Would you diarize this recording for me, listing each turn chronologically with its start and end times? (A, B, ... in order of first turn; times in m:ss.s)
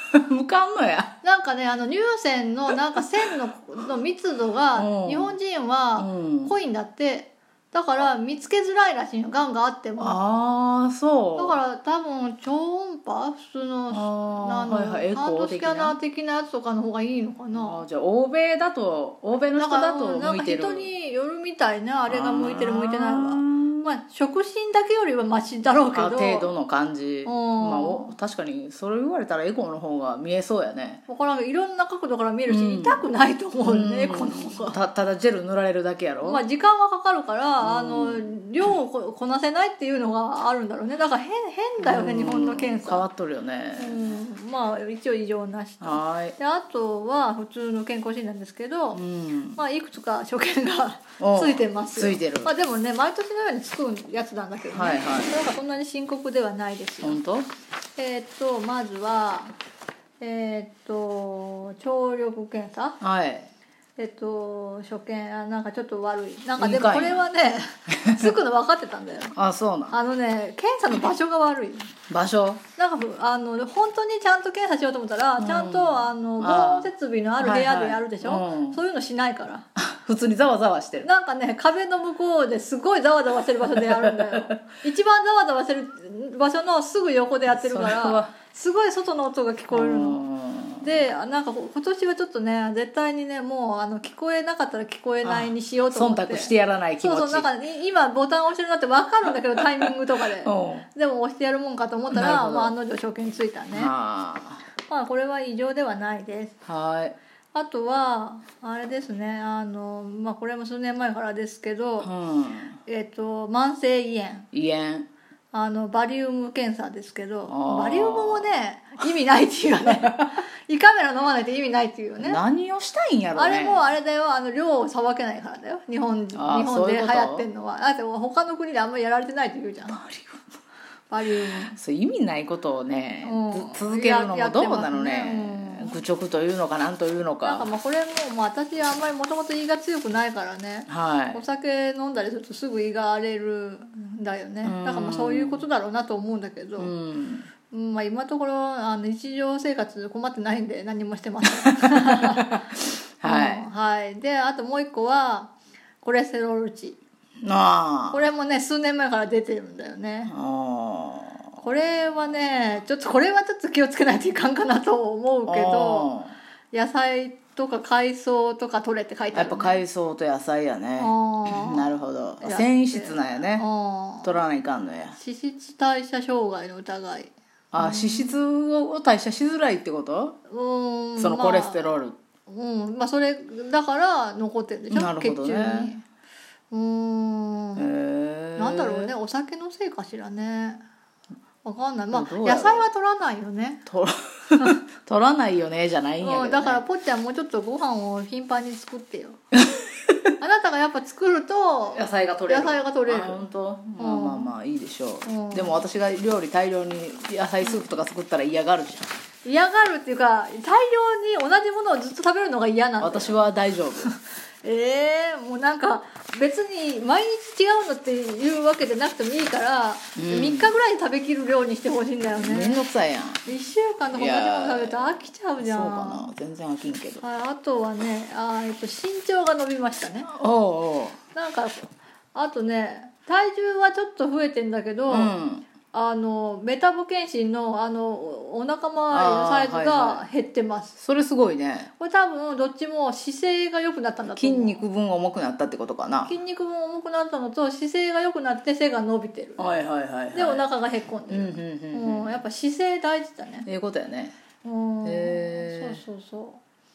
0:00.1-0:01.2 A
0:01.2-0:10.2 B
0:04.7-0:05.3 A
0:06.0-0:06.5 A
0:10.0-0:11.6 A
0:11.4-0:17.8 B
0:13.9-0:16.0 A
0:17.5-0:20.9 A
0:19.6-0:26.5 B
0:22.1-0:23.9 A
0:25.9-0:31.0 A
0:27.2-0:28.1 B
0:31.1-0:34.8 B
0:32.5-0:33.0 A
0:33.6-0:36.4 A
0:36.2-0:43.0 B
0:37.6-0:38.3 A
0:41.8-0:44.2 A
0:43.8-0:49.0 B
0:45.8-0:46.4 A
0:48.9-0:49.6 A
0:49.5-0:57.2 B
0:51.2-0:52.5 A
0:54.7-0:55.4 A
0:57.0-0:57.5 A
0:58.0-0:59.5 B
1:00.2-1:03.0 B
1:03.0-1:03.5 A
1:04.0-1:09.3 B
1:06.6-1:07.3 A
1:07.9-1:08.3 A
1:09.3-1:10.0 A
1:09.9-1:11.9 B
1:12.1-1:12.6 A
1:12.8-1:19.7 B
1:15.4-1:18.8 A
1:19.8-1:21.1 A
1:21.0-1:30.2 B
1:23.7-1:24.6 A
1:27.5-1:28.3 A
1:29.7-1:31.0 A
1:30.8-1:43.9 B
1:35.2-1:37.5 A
1:39.6-1:40.9 A
1:42.1-1:42.7 A
1:43.7-1:44.6 A
1:44.8-1:46.5 B
1:46.6-1:47.1 A
1:47.5-1:52.1 B
1:52.0-1:52.8 A
1:52.8-1:54.5 B
1:54.5-1:55.1 A
1:55.5-2:02.4 B
1:57.5-1:58.5 A
2:00.0-2:00.4 A
2:02.2-2:03.8 A
2:03.3-2:10.0 B
2:06.3-2:07.5 A
2:09.9-2:10.4 A
2:11.1-2:11.8 B
2:11.6-2:17.7 A
2:13.2-2:16.0 B
2:17.4-2:26.9 B
2:20.9-2:21.4 A
2:24.6-2:25.6 A
2:26.8-2:27.5 A
2:27.7-2:32.6 B
2:31.6-2:33.6 A
2:33.2-2:37.0 B
2:37.4-2:38.2 A
2:38.1-2:40.3 B
2:40.3-2:41.6 A
2:41.6-2:46.1 B
2:45.4-2:46.4 A
2:46.7-2:49.8 B
2:49.3-2:53.6 A
2:51.0-2:54.3 B
2:54.2-2:55.2 A
2:55.1-2:58.4 B
2:57.7-3:00.4 A
3:00.5-3:06.0 B
3:01.2-3:02.2 A
3:04.9-3:05.9 A
3:06.7-3:07.9 B
3:07.8-3:09.1 A
3:08.6-3:10.8 B
3:11.6-3:13.8 B
3:12.1-3:12.8 A
3:13.8-3:16.8 A
3:16.2-3:19.4 B
3:20.4-3:23.4 B
3:21.9-3:29.1 A
3:24.0-3:24.5 B
3:25.2-3:25.8 B
3:29.4-3:33.5 B
3:33.0-3:34.1 A
3:34.0-3:42.8 B
3:40.2-3:40.7 A
3:42.4-3:43.4 A
3:43.4-3:46.3 B
3:44.1-3:47.2 A
3:47.2-3:50.3 B
3:50.2-3:51.2 A
3:51.3-3:55.3 B
3:55.1-3:55.6 A
3:55.9-4:00.9 B
3:59.1-4:00.2 A
4:01.0-4:01.9 A
4:02.0-4:04.8 B
4:04.4-4:06.3 A
4:06.2-4:09.6 B
4:09.6-4:10.6 A
4:10.3-4:13.7 B
4:11.3-4:12.4 A
4:13.6-4:14.4 A
4:14.6-4:16.6 B
4:15.0-4:16.0 A